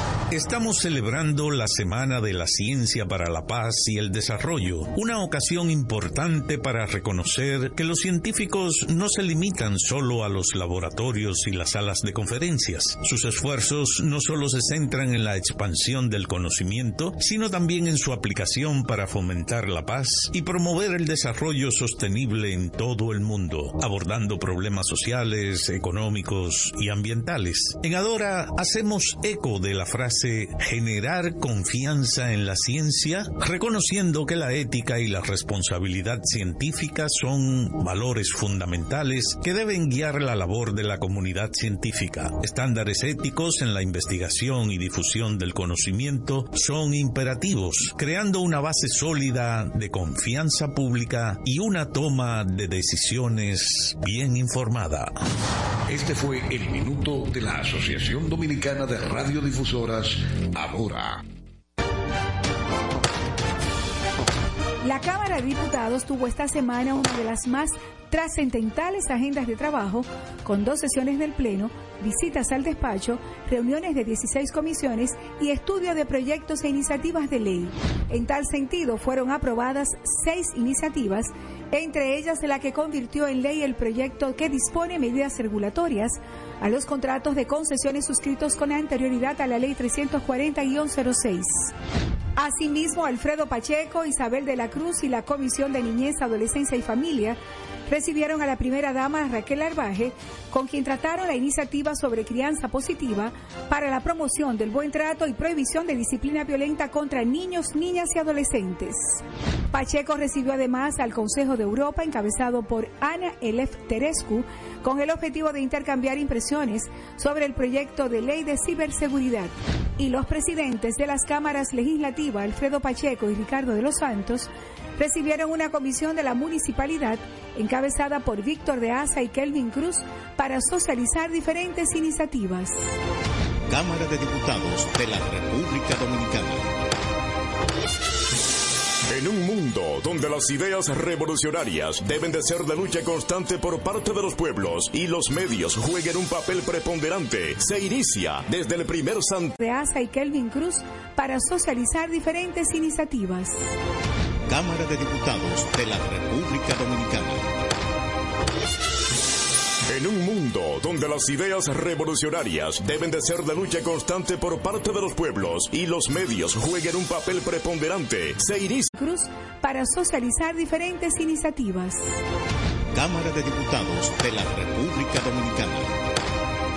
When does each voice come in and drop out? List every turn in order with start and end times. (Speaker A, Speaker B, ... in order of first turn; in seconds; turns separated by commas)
Speaker A: 0.3-55.1, Speaker B: 55.9-61.2, Speaker C: 64.8-91.7, Speaker C: 92.4-109.2, Speaker C: 109.7-132.8, Speaker D: 133.7-136.7, Speaker E: 139.1-149.6, Speaker C: 149.6-153.6, Speaker D: 154.5-157.5, Speaker E: 159.9-168.9, Speaker C: 168.9-172.0, Speaker D: 172.9-175.9